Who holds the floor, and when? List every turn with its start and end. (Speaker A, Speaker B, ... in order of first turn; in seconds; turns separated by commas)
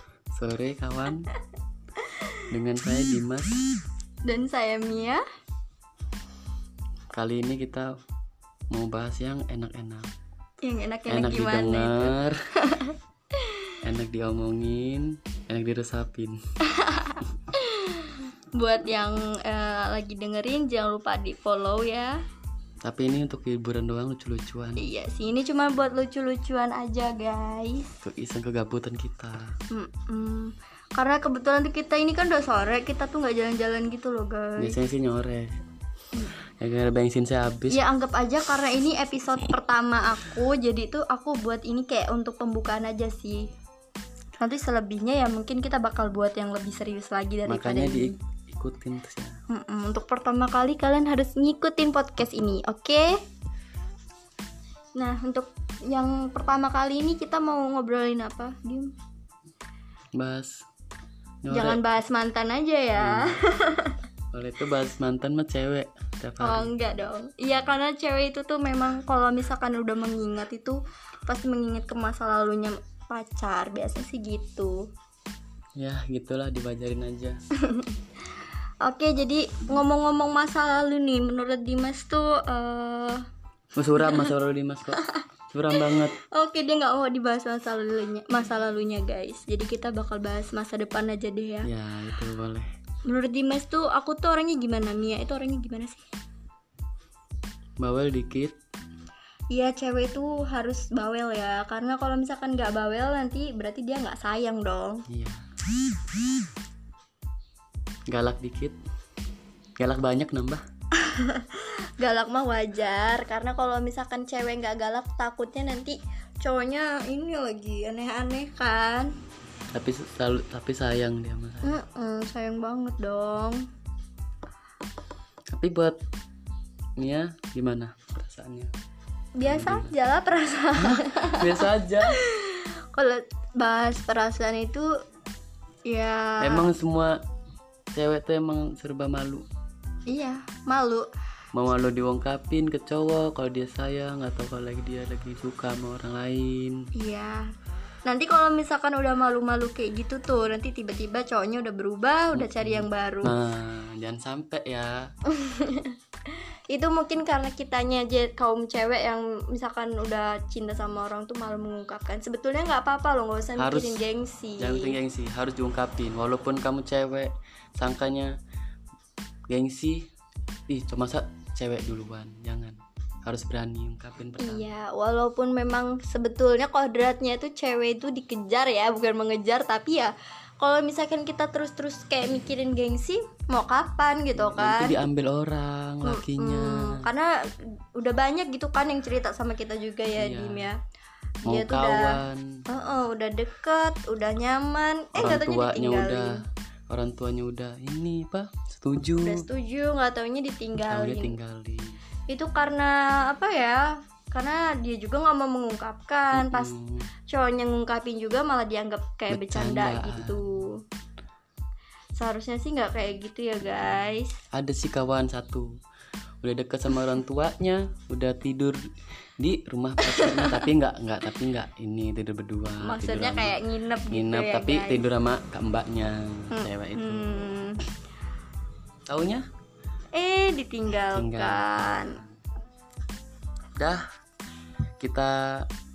Speaker A: 0.3-1.3, Speaker A: 2.5-3.6, Speaker B: 4.2-5.2, Speaker A: 7.1-7.9, Speaker A: 8.7-10.1, Speaker B: 10.6-13.7, Speaker A: 11.1-12.4, Speaker A: 13.8-16.4, Speaker B: 16.7-22.1, Speaker A: 22.8-24.8, Speaker B: 24.8-27.9, Speaker A: 28.0-29.5, Speaker B: 29.7-34.8, Speaker A: 34.6-35.6, Speaker A: 36.6-37.8, Speaker B: 37.7-43.5, Speaker B: 44.4-48.1, Speaker A: 47.5-49.4, Speaker B: 49.5-53.1, Speaker B: 55.0-58.9, Speaker A: 60.1-60.6, Speaker A: 61.4-61.8, Speaker B: 61.5-64.0, Speaker A: 63.0-63.4, Speaker A: 64.3-66.7, Speaker B: 66.4-74.9, Speaker A: 75.8-77.4, Speaker B: 77.7-77.9, Speaker B: 78.8-83.2, Speaker A: 83.8-86.2, Speaker B: 84.0-84.3, Speaker B: 85.7-91.7, Speaker A: 91.6-92.7, Speaker B: 93.0-96.0, Speaker A: 97.8-98.5, Speaker B: 99.5-105.0, Speaker A: 105.1-105.5, Speaker A: 108.1-108.8, Speaker A: 109.8-110.6, Speaker B: 110.9-119.1, Speaker A: 119.7-121.8, Speaker B: 121.6-123.6, Speaker A: 125.5-126.0, Speaker A: 127.0-128.7, Speaker B: 129.4-134.9, Speaker A: 129.4-129.9, Speaker A: 130.8-132.2, Speaker B: 135.9-136.7, Speaker A: 136.4-137.2, Speaker A: 137.9-139.4, Speaker B: 140.1-141.1, Speaker A: 141.5-146.8, Speaker B: 146.9-147.4, Speaker B: 148.0-153.3, Speaker A: 152.3-155.1, Speaker B: 155.3-155.9, Speaker B: 156.7-165.0, Speaker A: 163.6-164.0, Speaker A: 164.6-168.3, Speaker A: 169.5-170.1, Speaker A: 170.7-174.7, Speaker B: 174.4-185.0, Speaker A: 184.3-187.1, Speaker B: 186.0-187.3, Speaker B: 187.9-190.8, Speaker A: 190.2-190.7, Speaker A: 191.4-192.6, Speaker B: 191.4-196.4, Speaker A: 195.1-196.4, Speaker A: 196.9-199.4, Speaker B: 199.2-201.4, Speaker A: 200.8-201.9, Speaker B: 202.3-206.7, Speaker A: 206.3-207.1, Speaker B: 207.3-210.8, Speaker A: 209.3-210.4, Speaker B: 212.2-214.3, Speaker A: 214.5-215.7, Speaker A: 216.4-218.8, Speaker A: 219.4-223.6, Speaker B: 220.0-220.6, Speaker B: 222.8-225.1, Speaker A: 224.1-227.5, Speaker B: 226.5-227.8, Speaker A: 229.1-229.4, Speaker B: 230.1-232.2, Speaker A: 231.1-232.3, Speaker A: 233.8-234.0, Speaker A: 235.0-235.7